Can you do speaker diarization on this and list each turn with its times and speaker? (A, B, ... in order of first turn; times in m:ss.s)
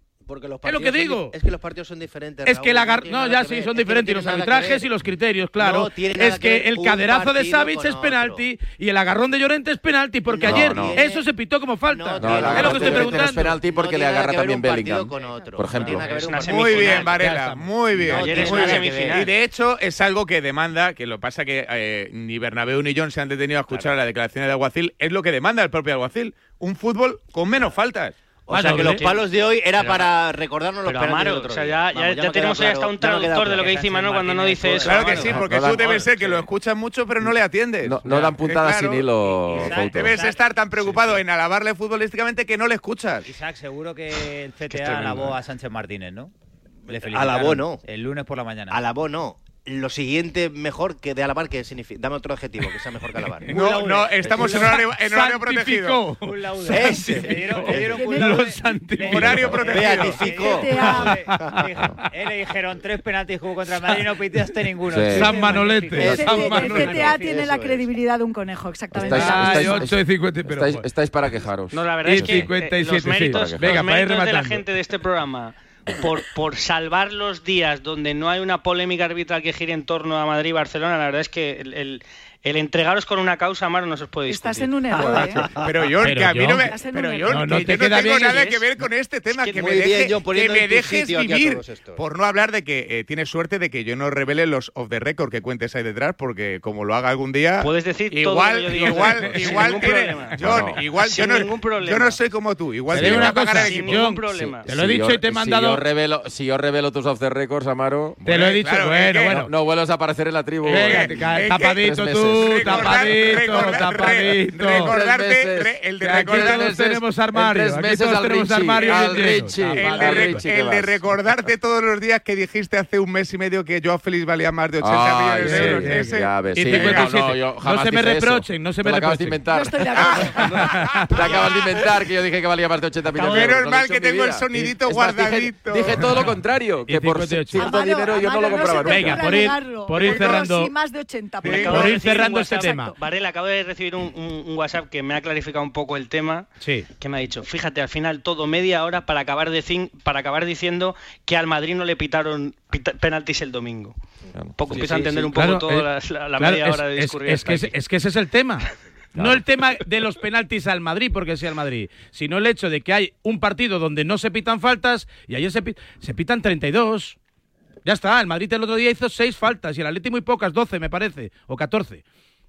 0:00.2-0:04.9 A
0:00.6-0:01.4 B
0:02.4-0:13.6 B
0:05.6-0:08.4 A
0:10.3-0:11.3 A
0:10.5-0:11.0 C
0:11.9-0:17.2 A
0:12.2-0:16.0 C
0:15.1-0:16.4 D
0:16.2-0:17.1 E
0:16.4-0:28.2 F
0:17.1-0:18.5 B
0:18.0-0:19.3 A
0:18.2-0:19.3 E
0:28.5-0:33.7 A
0:28.5-0:29.2 B
0:30.8-0:35.2 E
0:33.3-0:35.5 D
0:34.8-0:43.3 F
0:35.3-0:36.1 C
0:37.8-0:40.1 C
0:39.3-0:41.2 D
0:43.3-0:46.3 D
0:44.7-0:45.4 F
0:46.9-0:48.9 D
0:46.9-0:47.8 A
0:48.7-0:53.5 A
0:53.4-0:54.9 D
0:53.5-0:56.1 F
0:53.5-0:59.6 B
0:56.2-1:07.8 D
0:56.7-0:57.9 A
0:57.9-0:58.4 G
0:59.1-1:00.3 F
0:59.7-1:00.7 A
1:00.4-1:01.1 G
1:00.9-1:01.2 B
1:04.9-1:05.4 C
1:05.1-1:07.2 B
1:06.0-1:06.2 C
1:06.0-1:09.9 G
1:07.3-1:07.7 A
1:08.9-1:12.5 C
1:09.0-1:10.9 B
1:11.7-1:25.2 E
1:12.0-1:14.7 B
1:13.3-1:13.8 C
1:24.3-1:25.5 G
1:25.6-1:44.2 F
1:26.0-1:28.6 B
1:26.3-1:28.5 G
1:29.3-1:29.7 E
1:29.6-1:32.0 A
1:37.6-1:42.2 E
1:38.9-1:39.8 B
1:40.4-1:40.8 C
1:42.9-1:45.9 B
1:43.5-1:44.7 E
1:44.2-1:48.2 C
1:48.2-1:49.5 F
1:48.2-1:49.5 B
1:49.3-1:51.2 C
1:50.6-1:56.7 F
1:50.6-1:55.0 B
1:51.8-1:52.9 C
1:54.8-2:01.0 C
1:56.0-2:00.4 B
1:58.8-1:59.2 F
1:59.7-2:07.2 F
2:04.8-2:10.5 C
2:05.4-2:09.4 B
2:09.5-2:10.5 G
2:10.0-2:11.9 F
2:10.4-2:11.1 B
2:11.1-2:19.3 C
2:13.2-2:13.6 E
2:13.2-2:16.2 F
2:16.9-2:17.7 B
2:17.5-2:23.0 G
2:18.7-2:20.7 B
2:20.0-2:20.4 F
2:21.4-2:22.9 B
2:21.4-2:26.5 E
2:26.6-2:26.9 B
2:27.0-2:34.0 E
2:34.3-2:35.3 C
2:34.6-2:37.7 E
2:34.9-2:35.2 A
2:35.4-2:47.2 B
2:39.2-2:39.4 C
2:47.8-2:52.0 B